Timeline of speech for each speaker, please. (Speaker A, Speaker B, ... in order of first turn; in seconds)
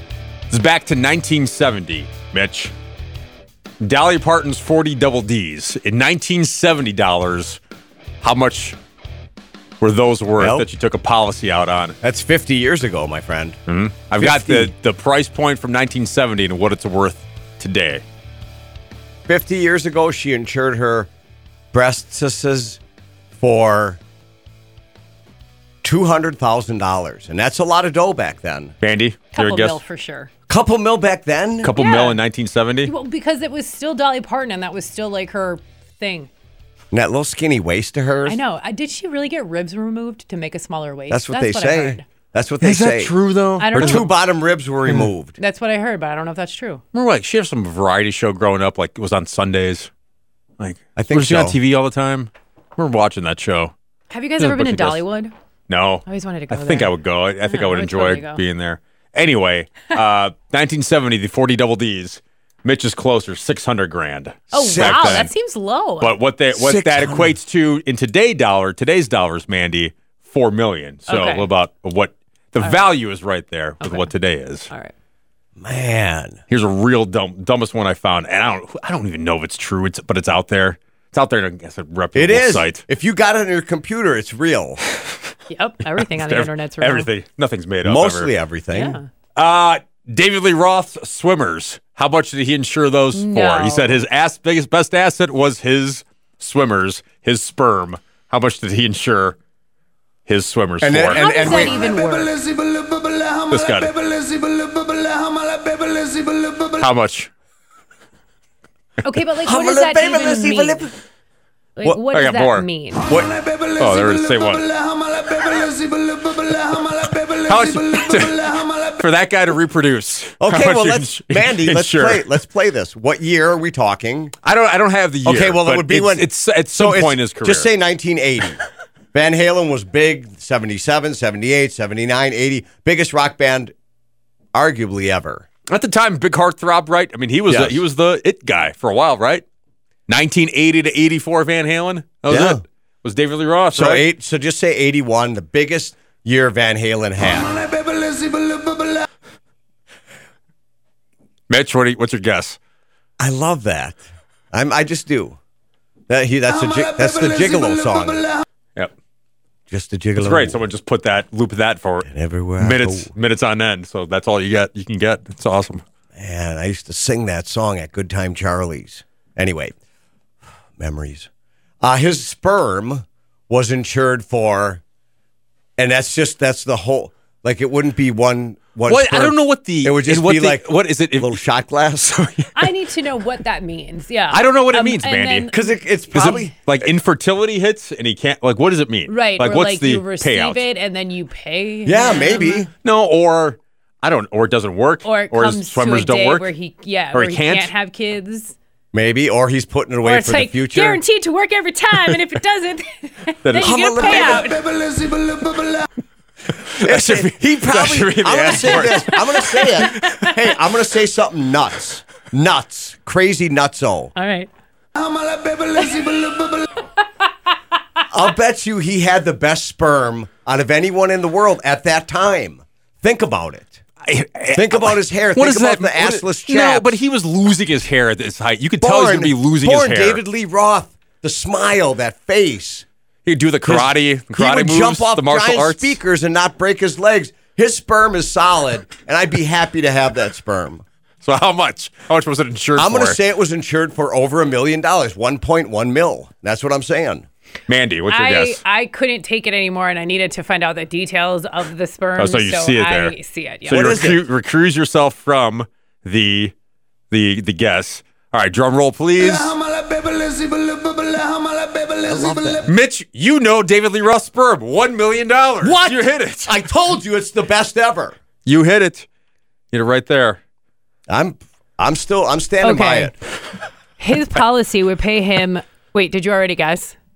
Speaker A: 0.5-2.7, 3.8-7.6, 8.2-8.8, 9.8-12.0, 13.7-18.0, 28.8-29.8, 31.6-32.9, 42.6-44.1, 46.9-49.9, 50.6-53.7, 54.4-55.0, 55.7-65.3, 66.0-74.7, 76.5-82.8, 86.0-88.3, 89.4-99.4, 100.3-101.7, 103.5-103.9, 106.8-107.3, 112.1-112.7, 113.8-114.7, 117.3-122.3, 124.4-127.7, 135.7-139.4, 140.1-144.1, 151.5-152.6, 160.2-165.8, 178.9-181.4, 184.3-185.5, 186.1-190.7, 192.8-196.5, 197.1-197.7, 203.4-204.2, 206.7-210.3, 224.0-230.2, 233.3-236.0, 241.2-243.2, 247.7-248.6, 252.2-253.2, 253.7-256.5, 257.1-259.6, 262.7-266.6, 268.4-269.1, 269.7-270.4
Speaker B: 10.4-10.7, 12.0-13.6, 14.2-14.7, 19.3-21.1, 21.7-22.8, 23.4-24.0, 25.8-28.8, 30.5-31.7, 36.9-38.4, 41.1-43.1, 43.7-45.4, 51.0-51.6, 64.6-65.3, 66.5-67.4, 75.6-76.4, 82.2-84.8, 87.8-89.0, 100.8-101.8, 109.4-110.9, 120.4-124.3, 125.2-128.6, 129.1-133.7, 134.5-135.5, 137.5-137.8, 142.3-142.6, 143.7-147.5, 153.2-155.4, 156.1-158.3, 159.7-160.6, 162.1-163.1, 166.2-169.7, 170.8-171.3, 171.8-174.8, 175.8-182.4, 185.5-186.9, 191.9-192.7, 198.9-201.0, 203.6-204.5, 206.8-214.1, 218.1-223.8, 224.5-226.9, 228.8-232.8, 233.7-240.8, 242.8-247.3, 253.7-254.2, 261.9-262.7, 265.6-268.2, 271.1-273.1
Speaker C: 29.3-30.3, 31.8-32.2, 32.8-36.3, 38.3-42.0, 43.6-44.0, 45.4-46.8, 54.1-55.3, 56.0-58.4, 64.5-66.2, 71.1-71.5, 72.6-72.9, 73.8-74.1, 85.5-87.1, 88.7-89.1, 93.1-94.0, 101.1-102.4, 109.0-110.9, 111.8-113.1, 182.6-186.5, 189.1-192.7, 195.0-198.6, 200.0-204.7, 209.9-210.3, 214.2-214.5, 215.7-216.8, 248.1-253.9, 272.6-273.1, 274.0-276.9